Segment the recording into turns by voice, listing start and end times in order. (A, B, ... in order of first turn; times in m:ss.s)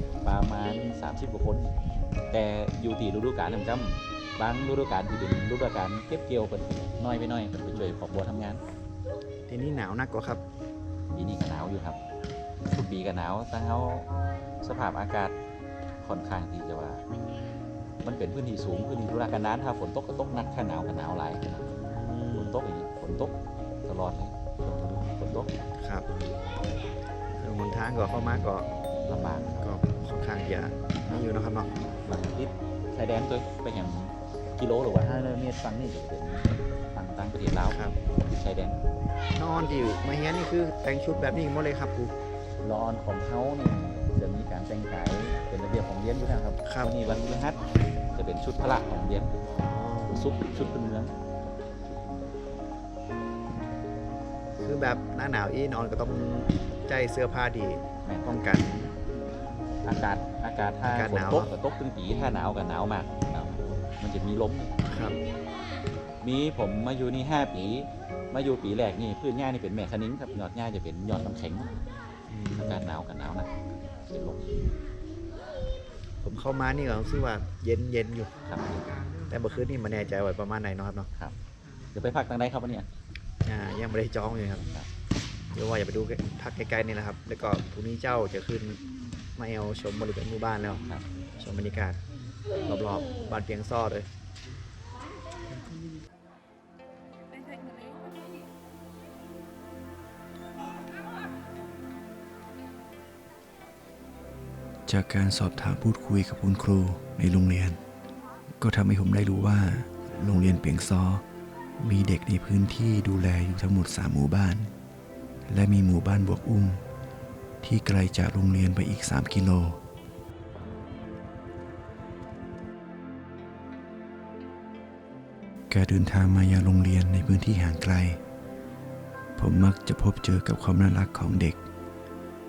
0:00.2-0:01.7 A
0:02.3-0:08.6 A
0:09.5-0:10.4 B
0:11.1-0:12.0 A
0:12.7-0:14.1 A
0:14.6-0:15.3 A
0:16.0-0:17.0 A
0:18.0-0:21.8 A
0:21.8-0:22.5 B
0:22.3-0:25.5 A
0:25.8-0:26.1 B
0:27.4-0:28.7 B
0:29.0-0:29.6 A
0:29.6-0:31.7 B
0:32.0-0:38.8 A
0:37.7-0:38.0 B
0:39.3-0:42.1 B
0:42.6-0:47.6 A
0:46.6-0:46.9 B
0:48.1-0:49.4 A
0:49.6-0:50.2 B
0:50.1-0:51.1 A
0:54.6-0:58.8 B
0:58.0-0:58.9 A
0:59.8-1:04.8 A
1:00.8-1:01.5 B
1:04.9-1:05.2 B
1:06.2-1:11.7 A
1:12.3-1:12.9 B
1:12.6-1:13.5 A
1:14.1-1:14.4 A
1:16.2-1:18.3 B
1:18.4-1:18.9 A
1:19.3-1:21.1 B
1:21.9-1:22.9 A
1:23.4-1:24.6 B
1:24.5-1:24.9 A
1:25.5-1:28.8 B
1:29.3-1:30.8 B
1:31.4-1:32.0 B
1:32.6-1:34.1 B
1:44.9-1:47.8 C
1:48.6-1:51.2 C
1:51.8-1:54.7 C
1:55.5-1:56.8 C
1:57.6-1:59.8 C
2:05.7-2:08.2 C
2:09.4-2:11.6 C